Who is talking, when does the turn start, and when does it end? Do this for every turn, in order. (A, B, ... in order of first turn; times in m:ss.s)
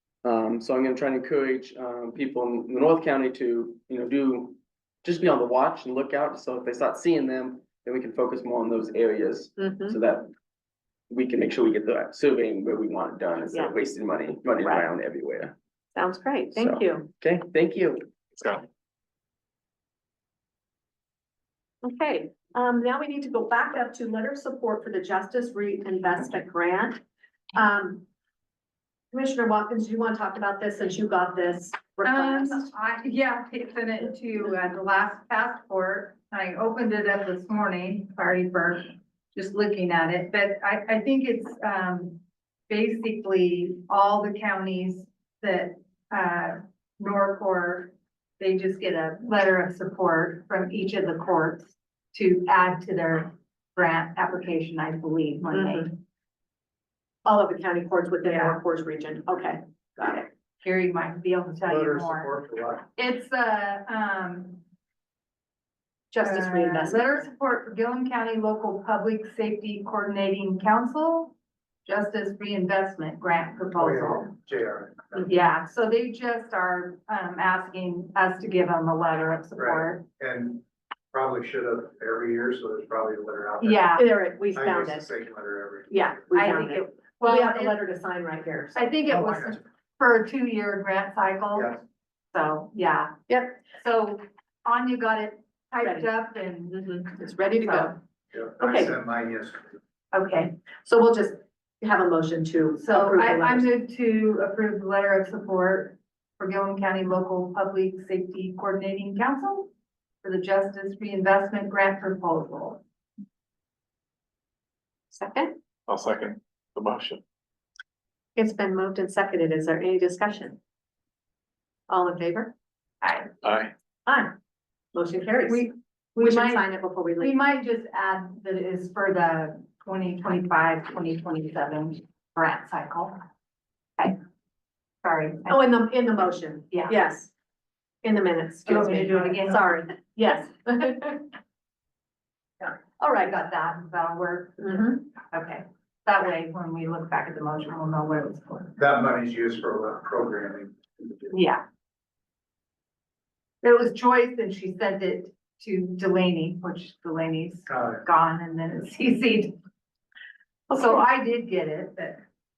0:00.2-0:10.3 A
0:09.6-0:10.0 B
0:11.1-0:15.5 A
0:16.0-0:17.1 B
0:16.6-0:18.1 A
0:18.4-0:18.7 C
0:21.8-0:27.0 B
0:27.5-0:28.0 B
0:29.1-0:32.7 B
0:32.0-0:56.0 D
0:55.5-0:55.9 B
0:57.2-1:00.3 B
0:58.3-0:58.6 D
1:00.6-1:02.3 D
1:01.7-1:02.9 E
1:03.0-1:04.6 D
1:06.1-1:07.2 B
1:06.2-1:11.3 D
1:11.8-1:14.3 D
1:13.8-1:15.4 E
1:15.2-1:20.0 D
1:19.6-1:24.0 E
1:23.6-1:24.1 D
1:24.0-1:25.1 B
1:24.5-1:26.2 E
1:25.9-1:29.0 B
1:26.3-1:27.8 D
1:28.8-1:31.8 D
1:29.1-1:29.6 E
1:32.3-1:33.2 D
1:33.3-1:33.6 B
1:33.7-1:38.0 D
1:35.8-1:36.1 B
1:36.7-1:38.0 B
1:38.3-1:39.7 E
1:38.6-1:39.0 B
1:40.1-1:40.5 D
1:40.8-1:43.7 B
1:42.8-1:49.7 D
1:50.2-1:52.8 D
1:55.1-1:55.5 B
1:55.9-1:57.2 C
1:58.4-2:00.6 B
2:01.9-2:02.5 B
2:03.0-2:03.3 D
2:03.4-2:03.7 C
2:04.1-2:04.3 B
2:04.9-2:07.4 B
2:05.5-2:06.7 D
2:07.2-2:13.2 D
2:15.0-2:15.6 D
2:15.5-2:17.3 B
2:16.7-2:17.0 D
2:18.0-2:21.3 B
2:18.7-2:19.9 D
2:22.6-2:28.7 D
2:23.0-2:23.4 B
2:24.6-2:25.0 B
2:28.8-2:31.3 E
2:31.3-2:31.6 D
2:33.6-2:39.6 D
2:37.7-2:38.0 E
2:40.7-2:42.2 D